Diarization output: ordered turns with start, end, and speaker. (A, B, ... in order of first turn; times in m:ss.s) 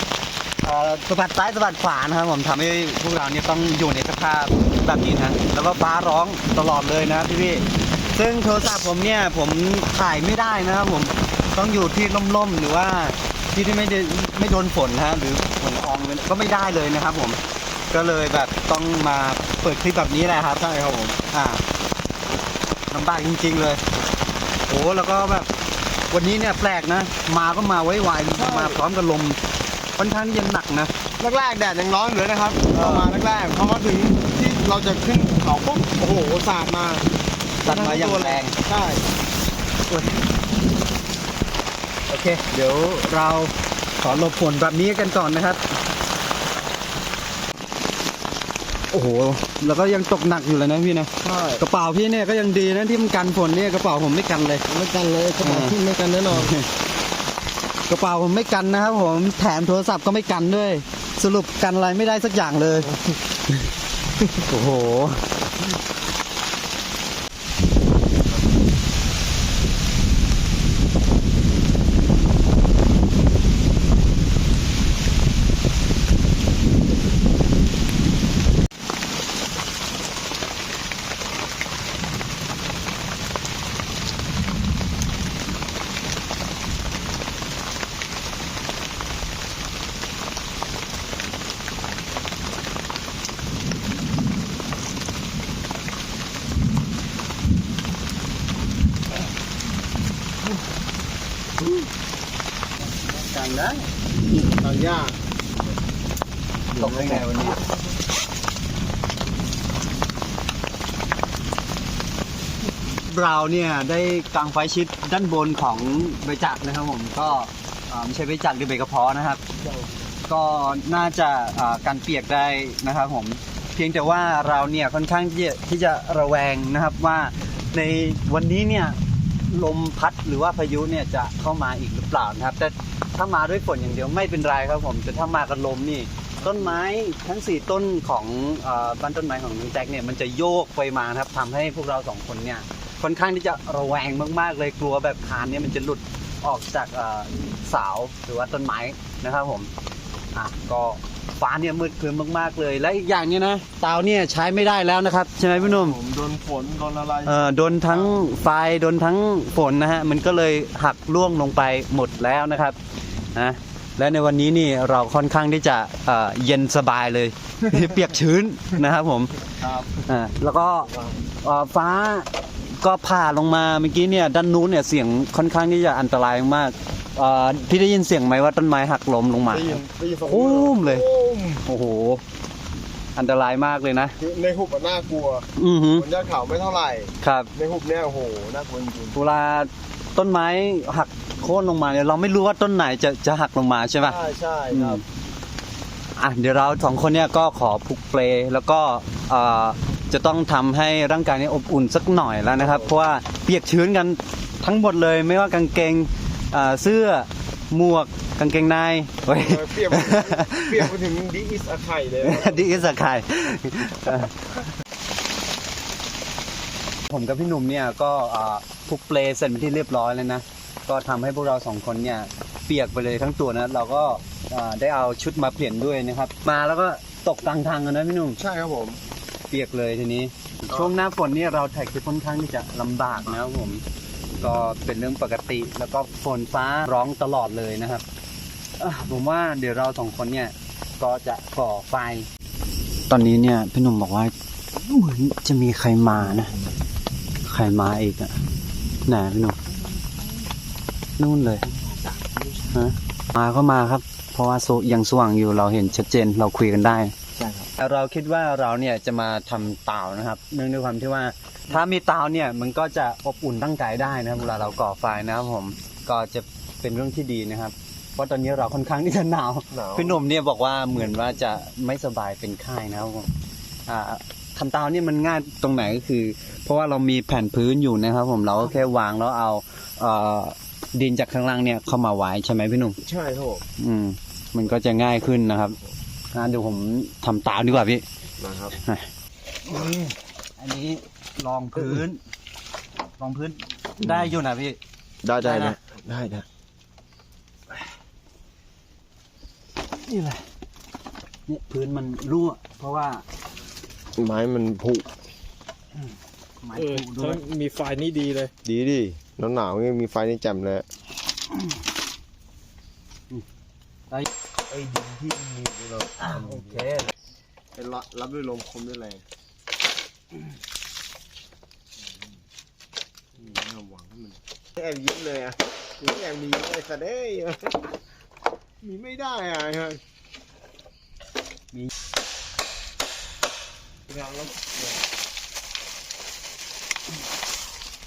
0:00.6-0:20.7 A
0:20.6-0:21.2 B
0:21.3-0:21.6 A
0:22.9-0:23.8 A
0:24.7-0:25.5 A
0:26.1-0:29.4 A
0:28.3-0:28.8 B
0:30.0-0:30.9 A
0:31.2-0:37.1 B
0:32.7-0:33.1 A
0:37.6-0:38.6 A
0:37.6-0:39.0 B
0:39.9-0:40.2 A
0:42.1-0:45.6 A
0:48.9-0:54.6 A
0:51.2-0:51.6 B
0:54.7-0:56.6 B
0:55.4-0:55.8 A
0:56.3-0:56.7 A
0:57.9-1:02.9 A
1:02.8-1:03.2 B
1:04.4-1:05.3 A
1:42.8-1:43.9 A
1:44.2-1:45.2 B
1:46.7-1:47.8 B
1:46.7-1:47.6 A
1:53.0-1:59.4 A
2:00.3-2:29.7 A
2:16.4-2:16.8 B
2:30.3-2:36.0 A
2:35.6-2:38.3 B
2:37.3-2:42.8 A
2:43.3-2:49.4 A
2:49.6-2:50.0 B
2:50.0-2:50.9 A
2:50.8-2:51.2 B
2:51.4-3:01.1 A
2:59.5-3:01.6 B
3:01.6-3:02.2 A
3:03.2-3:04.2 A
3:04.2-3:09.2 B
3:05.6-3:06.1 A
3:07.2-3:07.5 A
3:09.2-3:14.2 A
3:14.0-3:15.0 B
3:14.7-3:15.0 A
3:16.2-3:30.9 A
3:22.6-3:22.9 B
3:29.2-3:32.9 B
3:32.2-3:34.6 A
3:37.1-3:48.4 A
3:48.4-3:49.0 B
3:49.5-3:53.8 A
3:54.4-3:58.0 A
3:58.8-4:02.3 A
4:03.1-4:06.5 A
4:07.4-4:08.4 A
4:09.0-4:09.6 A
4:11.2-4:11.6 A
4:12.7-4:17.2 A
4:17.3-4:17.7 B
4:17.8-4:33.3 A
4:29.7-4:30.2 B
4:33.9-4:43.0 A
4:43.0-4:43.7 B
4:43.8-4:45.8 A
4:46.3-4:48.0 A
4:48.4-4:48.8 B
4:48.8-4:49.1 A
4:49.7-4:52.2 A
4:53.2-4:54.8 A
4:55.2-4:56.4 B
4:55.4-4:55.8 A
5:00.1-5:00.4 A
5:01.5-5:03.2 A
5:04.2-5:05.1 B
5:06.6-5:07.4 A
5:06.7-5:08.5 C
5:08.6-5:10.8 B
5:14.7-5:17.1 B
5:16.3-5:17.1 C
5:17.7-5:19.2 B
5:23.3-5:27.9 B
5:28.8-5:30.0 B
5:34.1-5:35.0 B